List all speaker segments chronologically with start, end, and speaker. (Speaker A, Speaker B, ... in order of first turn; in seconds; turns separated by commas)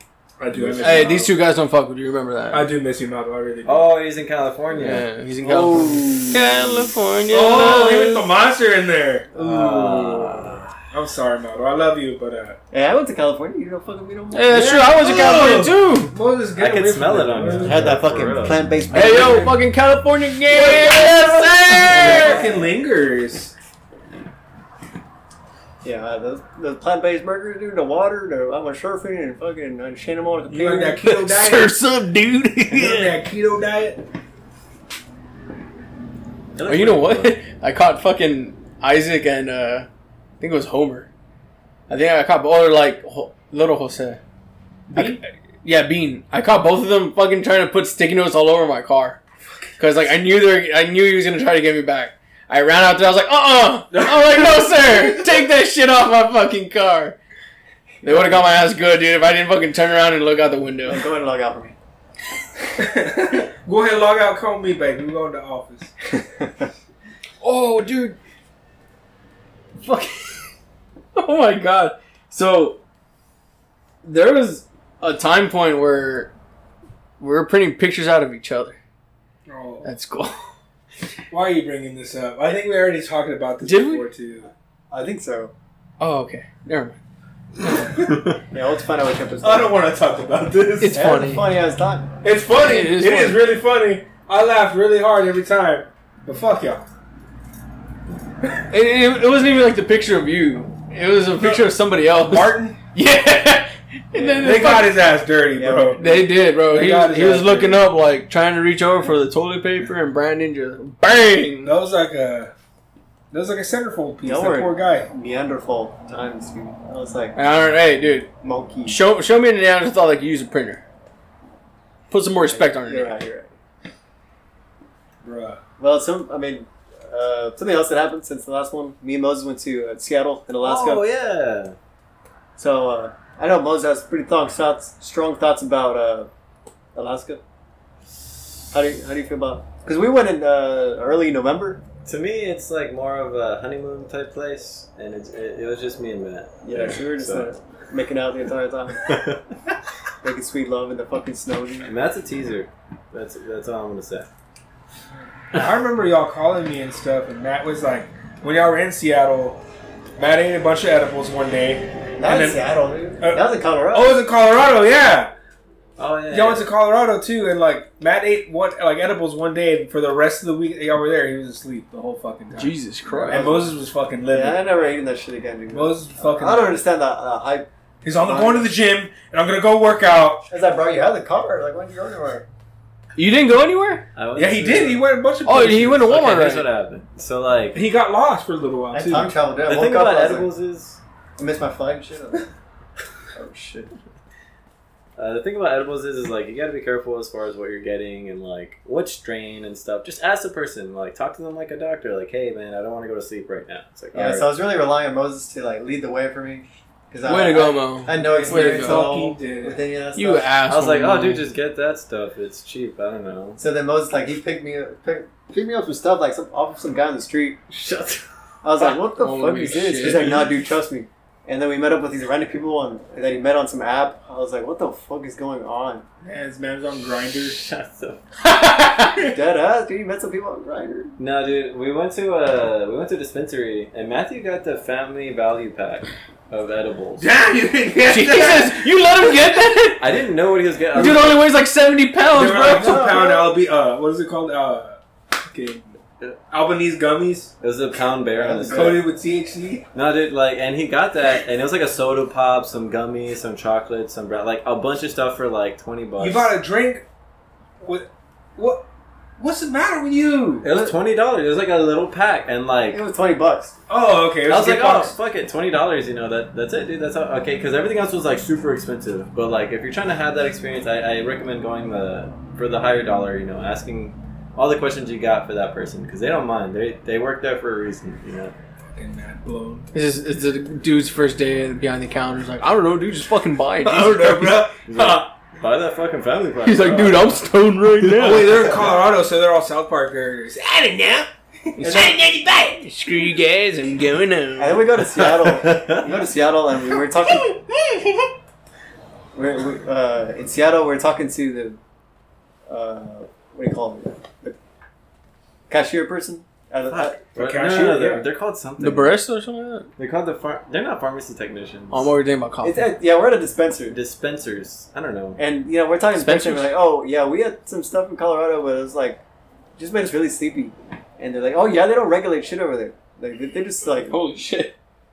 Speaker A: 0.4-1.3, Speaker B: 0.5-1.2, Speaker C: 0.8-2.7, Speaker A: 2.5-3.9, Speaker B: 3.6-5.0, Speaker C: 4.7-8.3, Speaker D: 5.4-6.9, Speaker A: 7.3-12.6, Speaker B: 9.4-10.7, Speaker D: 12.7-15.0, Speaker C: 14.3-16.1, Speaker A: 14.5-17.9, Speaker B: 16.6-18.7, Speaker D: 17.6-19.6, Speaker C: 18.9-22.4, Speaker D: 20.5-22.6, Speaker A: 21.9-23.5, Speaker D: 25.8-31.0, Speaker A: 30.5-31.8, Speaker C: 31.0-33.1, Speaker A: 32.7-34.0, Speaker B: 36.5-37.4, Speaker C: 36.6-39.9, Speaker C: 40.4-41.1, Speaker C: 41.9-44.2, Speaker A: 44.9-45.2, Speaker C: 44.9-49.2, Speaker C: 49.8-57.1, Speaker A: 53.9-55.2, Speaker D: 58.0-58.4, Speaker C: 58.0-61.0, Speaker D: 60.9-61.7, Speaker A: 62.8-65.9, Speaker D: 66.1-66.7, Speaker C: 67.4-68.2, Speaker C: 69.8-70.4, Speaker C: 71.1-72.8, Speaker C: 74.0-76.3, Speaker C: 77.2-78.8, Speaker A: 79.5-79.9, Speaker C: 79.8-80.4, Speaker A: 81.3-84.5, Speaker C: 83.6-84.0, Speaker D: 84.9-85.5, Speaker C: 86.0-87.0, Speaker A: 87.8-88.2, Speaker D: 88.5-89.8, Speaker A: 89.4-91.0, Speaker C: 90.8-91.5, Speaker D: 90.9-92.1, Speaker A: 92.2-96.8, Speaker C: 92.6-93.4, Speaker C: 98.7-104.9, Speaker A: 101.4-102.8, Speaker D: 104.1-104.9, Speaker A: 104.4-107.8, Speaker D: 105.5-106.3, Speaker C: 106.0-111.7, Speaker A: 111.6-112.5, Speaker A: 113.3-115.1, Speaker D: 114.2-117.4, Speaker C: 117.3-118.3, Speaker D: 118.4-119.0, Speaker C: 118.8-120.8, Speaker C: 122.1-123.2, Speaker D: 122.4-123.5, Speaker A: 125.2-125.6, Speaker D: 125.8-131.0, Speaker B: 130.6-131.8, Speaker D: 132.6-136.3, Speaker D: 136.9-137.4, Speaker D: 138.7-141.8, Speaker B: 142.0-147.5, Speaker D: 146.6-149.2, Speaker B: 149.0-149.4, Speaker D: 150.2-151.9, Speaker B: 151.8-154.3, Speaker A: 155.5-159.6, Speaker A: 160.2-162.6, Speaker D: 162.2-164.2, Speaker A: 163.2-165.3, Speaker B: 166.0-166.7, Speaker A: 166.3-174.7, Speaker C: 172.5-173.5, Speaker D: 173.3-173.8, Speaker D: 174.3-177.7, Speaker A: 175.7-176.8, Speaker A: 178.0-180.5, Speaker D: 178.2-178.7, Speaker D: 180.5-182.4, Speaker C: 183.2-184.1, Speaker B: 184.1-185.0, Speaker A: 184.3-186.2, Speaker C: 185.4-186.7, Speaker B: 186.0-187.8, Speaker A: 187.7-189.3, Speaker D: 188.9-190.5, Speaker B: 189.7-191.0, Speaker D: 191.4-192.5, Speaker D: 193.3-193.9, Speaker B: 195.2-204.5, Speaker D: 204.1-210.5, Speaker C: 207.2-209.0, Speaker A: 208.1-209.8, Speaker C: 210.1-211.4, Speaker B: 210.7-213.6, Speaker D: 213.6-217.6, Speaker B: 217.7-218.2, Speaker D: 218.6-226.0, Speaker C: 219.2-220.3, Speaker A: 220.0-220.6, Speaker A: 226.2-227.6, Speaker B: 227.5-228.2, Speaker C: 228.4-229.2, Speaker D: 229.2-231.1, Speaker B: 231.2-237.3, Speaker A: 237.2-239.3, Speaker C: 238.1-240.1, Speaker B: 240.0-241.4, Speaker C: 240.9-243.0, Speaker A: 242.3-246.0, Speaker D: 242.7-243.6, Speaker A: 246.5-247.5, Speaker B: 247.6-249.1, Speaker D: 248.3-249.1, Speaker A: 248.7-249.9, Speaker B: 249.9-256.5, Speaker A: 256.2-257.0, Speaker A: 257.8-258.8, Speaker A: 259.4-260.6, Speaker B: 260.6-263.0, Speaker D: 260.6-260.9, Speaker D: 262.9-263.7, Speaker A: 263.9-265.2, Speaker B: 264.5-278.5, Speaker A: 278.9-279.9, Speaker C: 279.9-284.7, Speaker A: 283.8-285.1, Speaker B: 284.9-287.4, Speaker C: 286.6-288.5, Speaker B: 288.0-288.3, Speaker A: 288.1-292.1, Speaker C: 291.8-294.9, Speaker D: 291.8-292.1, Speaker D: 294.6-297.6, Speaker B: 295.0-296.1, Speaker A: 297.2-298.3, Speaker D: 299.3-301.8, Speaker D: 302.7-304.6, Speaker D: 305.7-307.1, Speaker B: 306.9-309.2, Speaker A: 307.4-308.3, Speaker C: 308.8-309.9, Speaker B: 310.0-312.1, Speaker C: 311.9-312.9, Speaker D: 312.6-314.0, Speaker B: 313.9-315.4, Speaker D: 315.4-319.2, Speaker C: 316.1-316.8, Speaker D: 319.8-324.1, Speaker C: 324.1-324.7